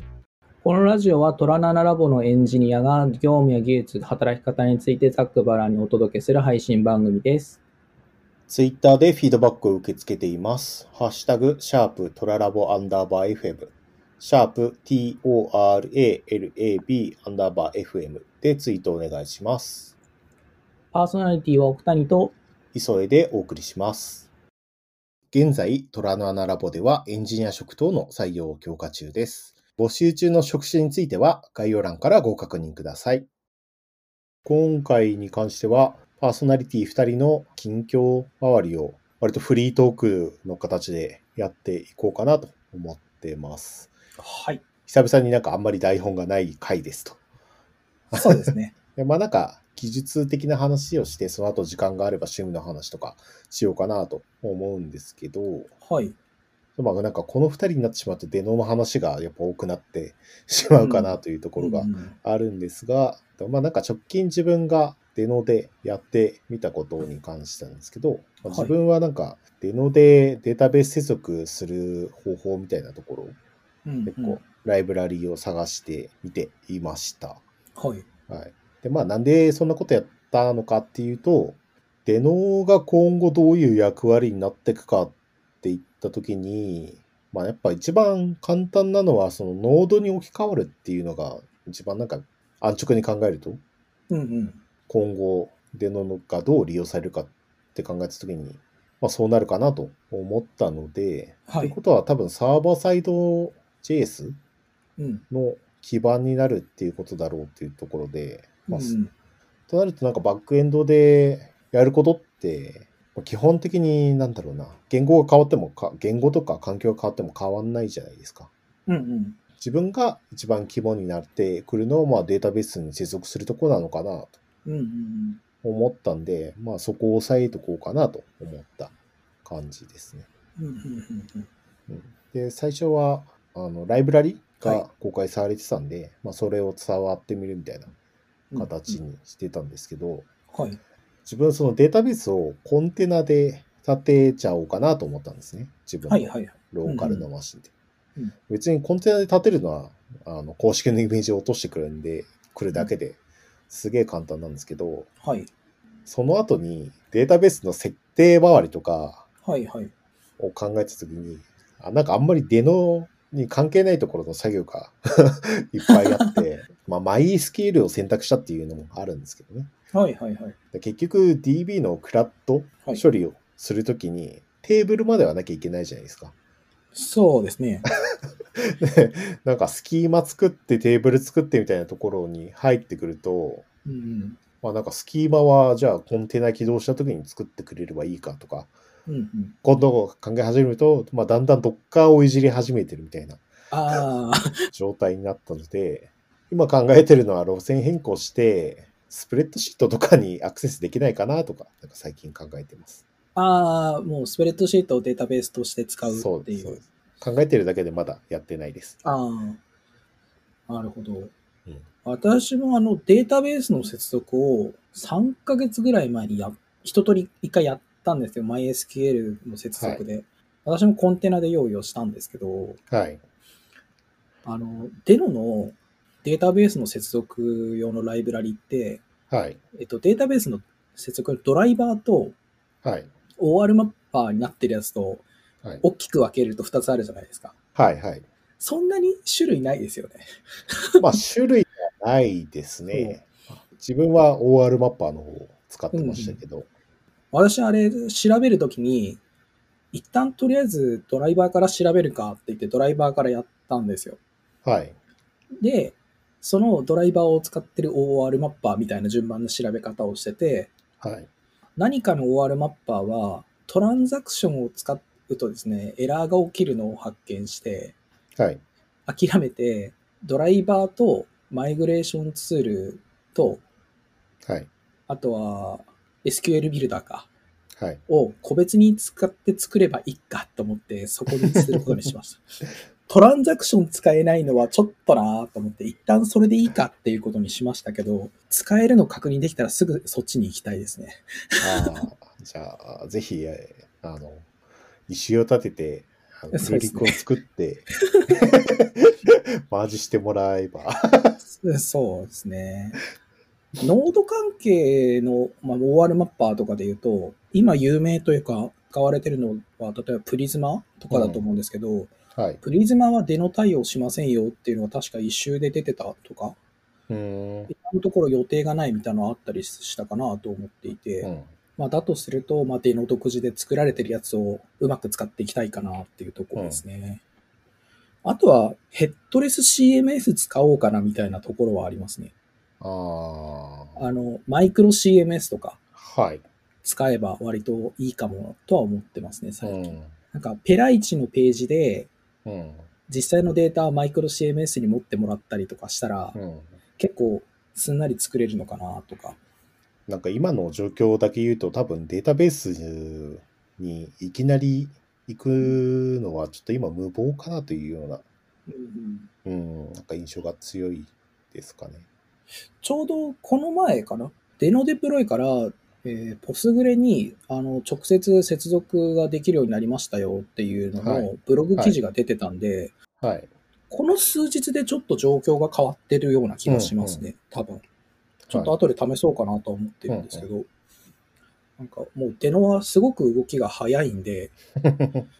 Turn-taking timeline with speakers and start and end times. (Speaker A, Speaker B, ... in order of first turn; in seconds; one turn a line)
Speaker A: 0.6-7.6
Speaker B: 8.5-19.9
Speaker A: 20.9-22.3
Speaker B: 22.7-24.3
Speaker B: 25.3-33.3
Speaker B: 34.5-43.9
Speaker A: 44.2-44.6
Speaker B: 44.9-47.2
Speaker B: 48.1-55.7
Speaker A: 48.1-48.7
Speaker A: 55.8-56.1
Speaker B: 56.8-73.4
Speaker A: 60.8-62.1
Speaker A: 68.5-68.7
Speaker A: 73.8-74.4
Speaker B: 74.0-77.4
Speaker A: 77.8-78.0
Speaker B: 78.3-93.6
Speaker A: 94.1-94.6
Speaker B: 94.9-104.4
Speaker A: 101.5-101.8
Speaker A: 105.0-105.2
Speaker B: 105.3-109.0
Speaker A: 108.7-109.1
Speaker B: 109.7-118.5
Speaker A: 118.9-119.4
Speaker B: 119.6-124.3
Speaker A: 124.6-125.4
Speaker B: 125.6-128.9
Speaker B: 129.4-130.3
Speaker A: 130.6-131.5
Speaker B: 131.9-137.9
Speaker A: 138.5-139.0
Speaker B: 138.6-140.3
Speaker A: 140.5-140.8
Speaker B: 141.3-147.7
Speaker A: 146.1-147.3
Speaker B: 148.5-155.1
Speaker A: 155.2-155.5
Speaker B: 156.1-159.3
Speaker A: 159.4-159.9
Speaker B: 160.4-169.7
Speaker A: 165.9-166.4
Speaker A: 169.9-170.6
Speaker B: 170.7-176.3
Speaker A: 176.9-177.9
Speaker B: 178.6-183.7
Speaker A: 183.9-184.4
Speaker B: 184.6-188.7
Speaker A: 189.1-189.5
Speaker B: 189.6-193.4
Speaker A: 193.7-194.5
Speaker B: 194.7-203.0
Speaker A: 203.3-206.8
Speaker B: 206.1-209.0
Speaker A: 209.0-209.6
Speaker A: 210.7-211.3
Speaker A: 212.0-222.8
Speaker B: 219.8-220.0
Speaker B: 222.9-223.2
Speaker A: 224.4-229.0
Speaker B: 229.3-229.6
Speaker A: 229.8-232.4
Speaker B: 232.8-233.1
Speaker A: 233.4-235.2
Speaker A: 235.8-237.6
Speaker B: 237.8-238.3
Speaker A: 238.6-241.0
Speaker B: 241.0-246.7
Speaker A: 242.9-243.2
Speaker A: 245.9-246.4
Speaker A: 247.3-249.2
Speaker A: 249.9-254.2
Speaker B: 254.6-254.9
Speaker A: 255.6-260.7
Speaker B: 261.0-261.3
Speaker A: 261.8-267.9
Speaker B: 268.4-268.6
Speaker A: 269.1-273.6
Speaker A: 275.1-277.3
Speaker A: 278.1-282.4
Speaker A: 283.1-291.9
Speaker B: 291.6-294.5
Speaker B: 295.1-299.1
Speaker A: 296.5-297.2
Speaker A: 298.2-298.5
Speaker B: 299.7-301.4
Speaker A: 301.6-303.0
Speaker A: 303.8-312.1
Speaker B: 311.1-311.4
Speaker B: 312.4-312.6
Speaker A: 312.6-316.6
Speaker B: 317.1-317.7
Speaker A: 317.7-327.2
Speaker B: 321.2-321.5
Speaker B: 326.6-326.8
Speaker A: 328.2-332.3
Speaker B: 332.8-334.0
Speaker A: 334.0-335.8
Speaker B: 336.0-336.4
Speaker A: 336.8-342.1
Speaker B: 339.6-340.1
Speaker B: 342.4-342.9
Speaker A: 343.1-346.4
Speaker B: 346.4-346.8
Speaker A: 347.0-349.4
Speaker B: 350.1-358.2
Speaker A: 358.7-359.3
Speaker B: 359.4-362.1
Speaker A: 362.8-372.9
Speaker B: 371.0-372.0
Speaker B: 373.2-373.5
Speaker A: 373.9-377.8
Speaker B: 376.7-377.2
Speaker B: 378.5-378.8
Speaker A: 378.5-380.7
Speaker B: 380.1-380.5
Speaker A: 381.8-384.5
Speaker B: 384.8-385.3